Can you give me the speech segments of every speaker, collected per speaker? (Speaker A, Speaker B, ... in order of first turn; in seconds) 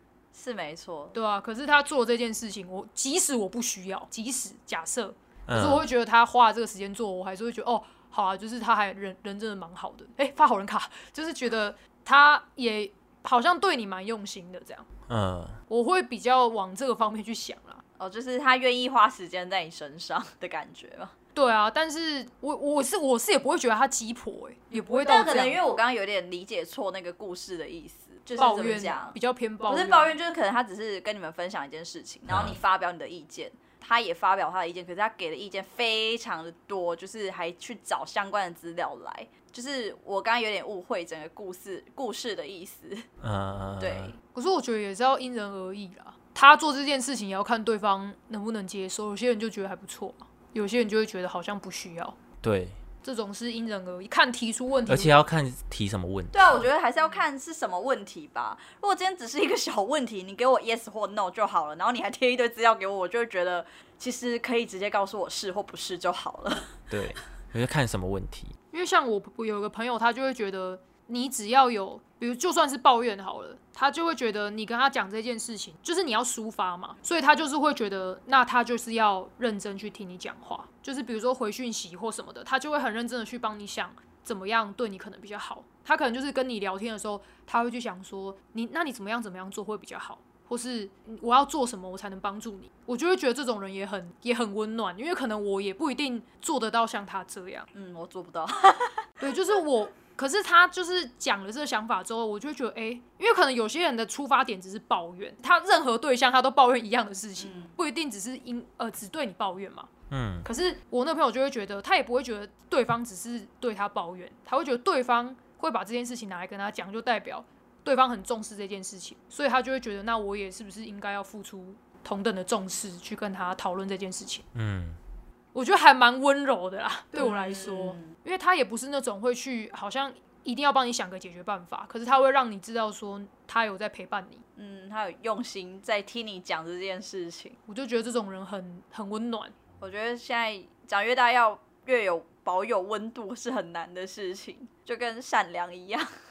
Speaker A: 0.3-1.1, 18.0-21.1, 24.9-29.1, 29.7-43.0, 43.8-44.1, 56.3-66.7, 97.7-99.1, 107.4-107.7, 127.2-128.1, 134.6-137.6, 139.8-146.1
Speaker B: 1.1-14.9, 15.7-17.8, 21.3-25.6, 28.4-30.1, 44.3-52.2, 53.0-55.2, 68.7-97.7, 99.2-109.9, 110.4-124.5, 125.5-134.4, 137.7-139.5
Speaker C: 5.5-5.8, 15.1-15.6, 32.3-32.6, 43.2-44.1, 52.4-52.8, 54.9-56.7, 66.9-68.5, 110.1-110.5, 124.5-125.0